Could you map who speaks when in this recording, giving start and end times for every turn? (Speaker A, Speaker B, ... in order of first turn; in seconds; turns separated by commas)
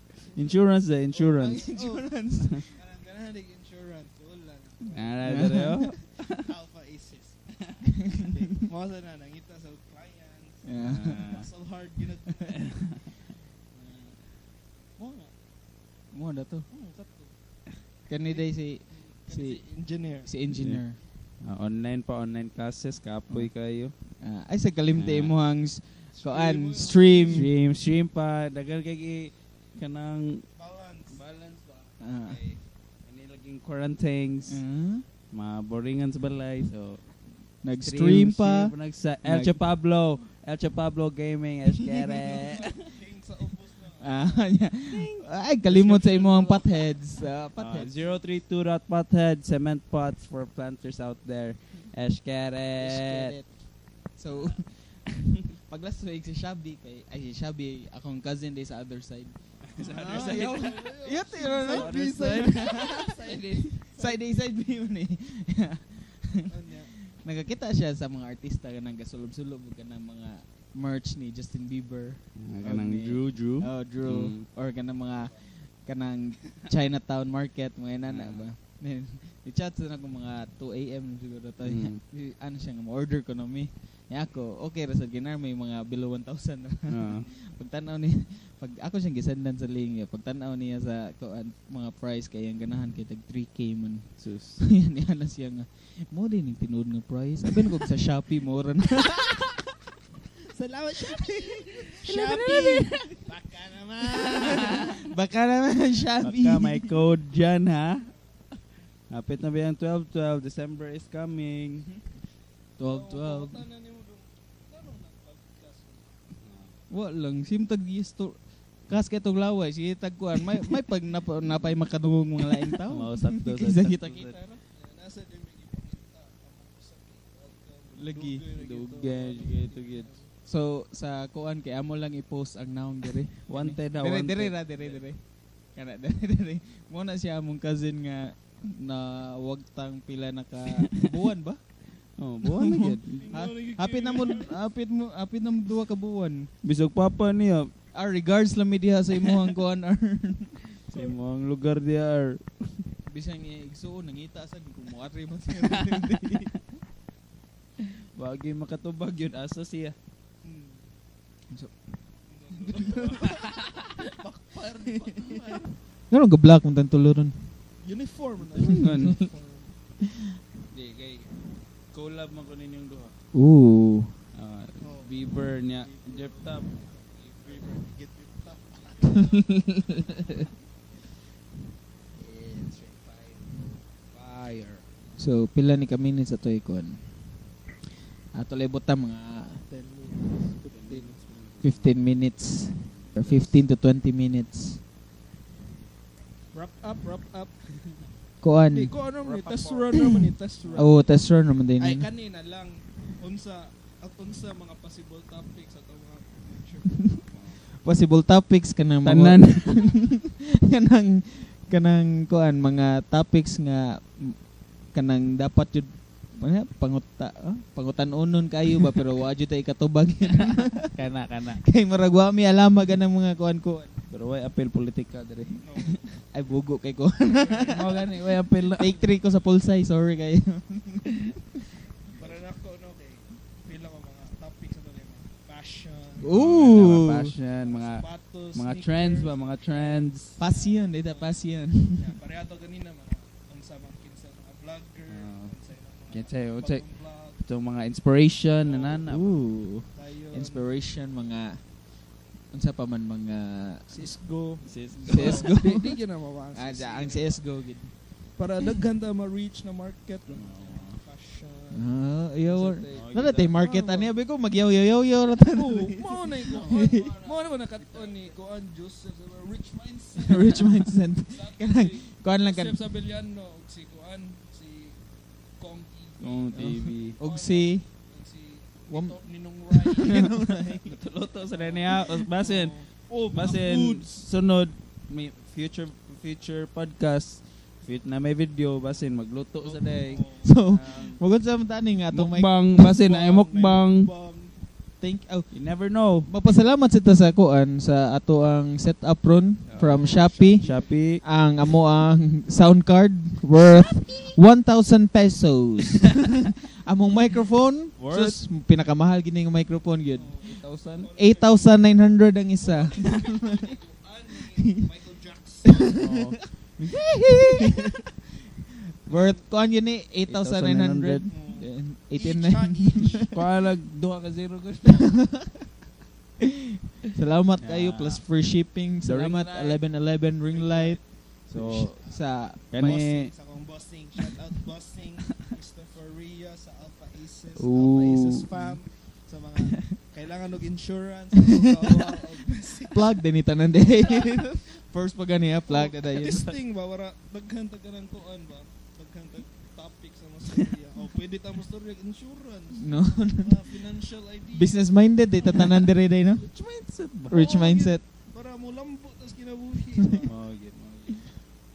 Speaker A: 0.3-1.7, Speaker B: 1.1-12.9, Speaker C: 1.5-2.7, Speaker A: 4.9-6.5, Speaker C: 5.2-5.9, Speaker C: 7.9-8.6, Speaker C: 10.6-11.3, Speaker A: 10.8-11.5, Speaker A: 12.7-13.0, Speaker B: 13.7-14.2, Speaker B: 15.0-15.3, Speaker C: 16.1-16.7, Speaker B: 16.7-17.3, Speaker C: 18.1-19.6, Speaker B: 18.3-20.3, Speaker C: 20.2-21.0, Speaker A: 20.5-20.8, Speaker A: 21.4-23.9, Speaker C: 24.2-27.5, Speaker A: 25.0-25.3, Speaker B: 26.1-27.5, Speaker A: 27.3-30.4, Speaker B: 30.6-31.2, Speaker A: 31.1-34.6, Speaker C: 32.0-32.4, Speaker C: 34.5-35.0, Speaker A: 35.3-42.9, Speaker C: 37.6-39.6, Speaker B: 42.1-44.5, Speaker C: 44.0-48.0, Speaker A: 44.9-45.2, Speaker B: 45.6-47.0, Speaker A: 47.6-53.4, Speaker C: 52.8-63.1, Speaker A: 59.7-63.8, Speaker B: 59.8-64.3, Speaker C: 64.0-99.6, Speaker B: 66.5-66.9, Speaker A: 72.4-74.5, Speaker A: 78.1-78.5, Speaker A: 81.6-82.0, Speaker A: 86.9-87.2, Speaker A: 94.2-94.6, Speaker B: 100.5-104.9, Speaker C: 101.0-103.2, Speaker C: 104.0-106.9, Speaker A: 104.4-104.8, Speaker A: 106.2-108.1, Speaker A: 109.1-111.9, Speaker C: 112.8-113.6, Speaker B: 112.8-116.2, Speaker A: 116.4-116.8, Speaker C: 116.9-124.6, Speaker A: 122.9-124.4, Speaker B: 124.7-130.3, Speaker C: 128.0-128.4, Speaker A: 128.5-130.2, Speaker C: 130.4-146.5, Speaker A: 133.5-135.0, Speaker A: 142.2-143.3, Speaker B: 143.1-144.6, Speaker A: 146.6-147.7, Speaker C: 147.9-150.7, Speaker A: 150.9-152.9, Speaker C: 153.1-156.5, Speaker A: 158.1-160.0, Speaker B: 160.4-160.9, Speaker B: 162.3-165.7, Speaker A: 162.7-164.0, Speaker C: 166.1-167.6, Speaker B: 167.8-169.8, Speaker C: 168.6-169.1, Speaker A: 168.6-169.2, Speaker A: 170.7-171.3, Speaker A: 171.9-173.1, Speaker C: 173.3-174.2, Speaker A: 174.3-177.8, Speaker B: 174.8-176.6, Speaker B: 177.3-179.7, Speaker A: 182.2-184.9, Speaker C: 185.2-187.5, Speaker C: 188.3-189.6, Speaker B: 189.7-191.2, Speaker A: 190.6-192.0, Speaker C: 191.6-194.8, Speaker A: 192.8-193.6, Speaker B: 196.5-197.6, Speaker C: 198.4-199.0, Speaker B: 198.7-201.2, Speaker A: 199.2-200.0, Speaker A: 200.6-201.0, Speaker C: 200.8-202.1, Speaker B: 201.8-207.4, Speaker A: 207.3-207.6, Speaker C: 207.8-224.0, Speaker A: 209.0-209.9, Speaker A: 224.1-226.0, Speaker B: 225.6-226.2, Speaker C: 226.3-228.1, Speaker B: 227.4-227.9, Speaker A: 227.6-229.0, Speaker C: 228.8-231.5, Speaker B: 232.1-247.4, Speaker C: 236.2-237.3, Speaker A: 236.3-240.3, Speaker C: 240.4-242.1, Speaker A: 245.1-245.5, Speaker A: 246.1-246.8, Speaker A: 247.4-249.3, Speaker B: 248.6-249.1, Speaker C: 249.1-251.9, Speaker B: 249.9-250.7, Speaker C: 252.5-254.1, Speaker B: 253.9-257.4, Speaker A: 254.6-255.5, Speaker C: 255.1-256.0, Speaker C: 256.5-258.0, Speaker B: 258.4-264.1, Speaker A: 260.3-261.0, Speaker C: 261.7-267.4, Speaker A: 262.9-263.6, Speaker B: 265.5-275.0, Speaker C: 270.2-272.8, Speaker B: 275.6-280.5, Speaker A: 276.2-277.2, Speaker C: 277.2-277.9, Speaker C: 278.9-280.9, Speaker A: 280.9-291.2, Speaker B: 281.4-284.1, Speaker B: 289.6-290.5, Speaker C: 290.4-292.5, Speaker A: 292.1-294.1, Speaker B: 292.8-294.6, Speaker C: 295.0-295.7, Speaker A: 295.5-296.3, Speaker C: 296.2-306.3, Speaker A: 299.7-301.2, Speaker B: 299.9-300.9, Speaker C: 306.9-310.6, Speaker A: 308.0-308.4, Speaker B: 310.2-311.9, Speaker A: 310.4-311.1, Speaker C: 311.1-313.6, Speaker B: 312.5-316.1, Speaker C: 315.8-318.0, Speaker A: 315.9-316.4, Speaker C: 319.0-323.3, Speaker B: 319.1-319.4, Speaker A: 320.3-321.3, Speaker B: 321.3-323.3, Speaker A: 323.3-325.2, Speaker C: 325.1-325.5, Speaker C: 327.1-333.0, Speaker A: 327.6-328.2, Speaker A: 329.0-329.8, Speaker B: 330.5-343.1, Speaker A: 331.5-332.0, Speaker A: 332.7-333.3, Speaker A: 337.6-338.5, Speaker C: 338.5-338.8, Speaker C: 341.6-341.9, Speaker C: 342.9-346.6, Speaker B: 344.0-344.4, Speaker B: 345.7-355.8, Speaker C: 352.8-353.8, Speaker C: 354.5-356.5, Speaker A: 356.4-357.5, Speaker C: 357.3-358.0, Speaker B: 357.3-360.4, Speaker A: 360.3-361.3